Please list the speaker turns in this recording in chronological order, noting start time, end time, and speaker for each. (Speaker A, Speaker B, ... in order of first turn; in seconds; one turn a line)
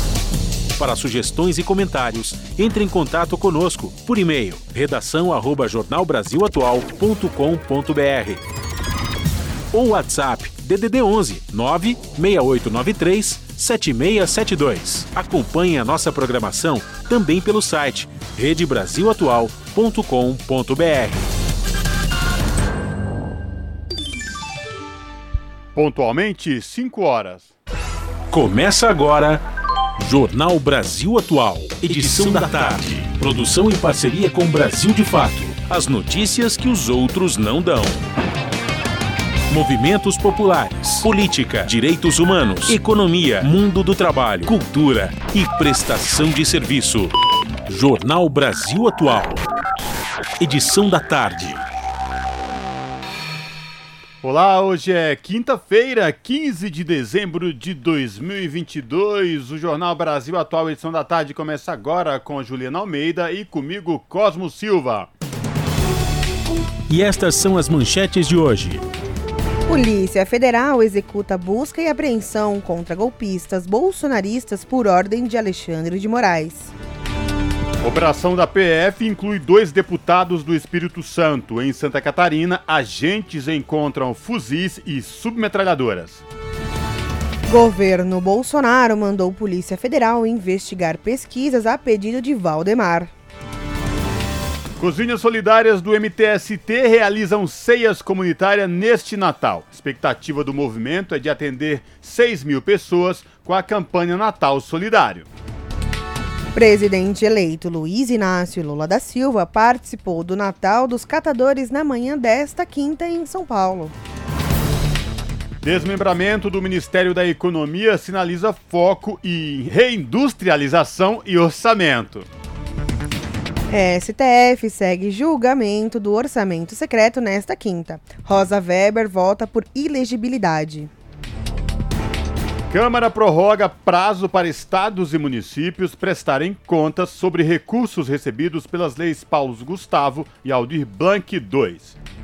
Speaker A: 0.8-8.4
Speaker A: 9.7-21.3
Speaker B: 25.8-27.5
Speaker A: 28.3-29.4
Speaker A: 30.0-38.0
Speaker A: 39.5-47.1
Speaker A: 47.7-49.4
Speaker A: 50.4-51.6
Speaker B: 54.2-65.1
Speaker A: 66.9-68.8
Speaker C: 69.7-76.7
Speaker B: 77.8-86.2
Speaker C: 87.5-93.1
Speaker B: 94.8-105.3
Speaker C: 106.5-113.9
Speaker B: 115.6-122.3
Speaker C: 123.7-130.9
Speaker B: 132.7-142.0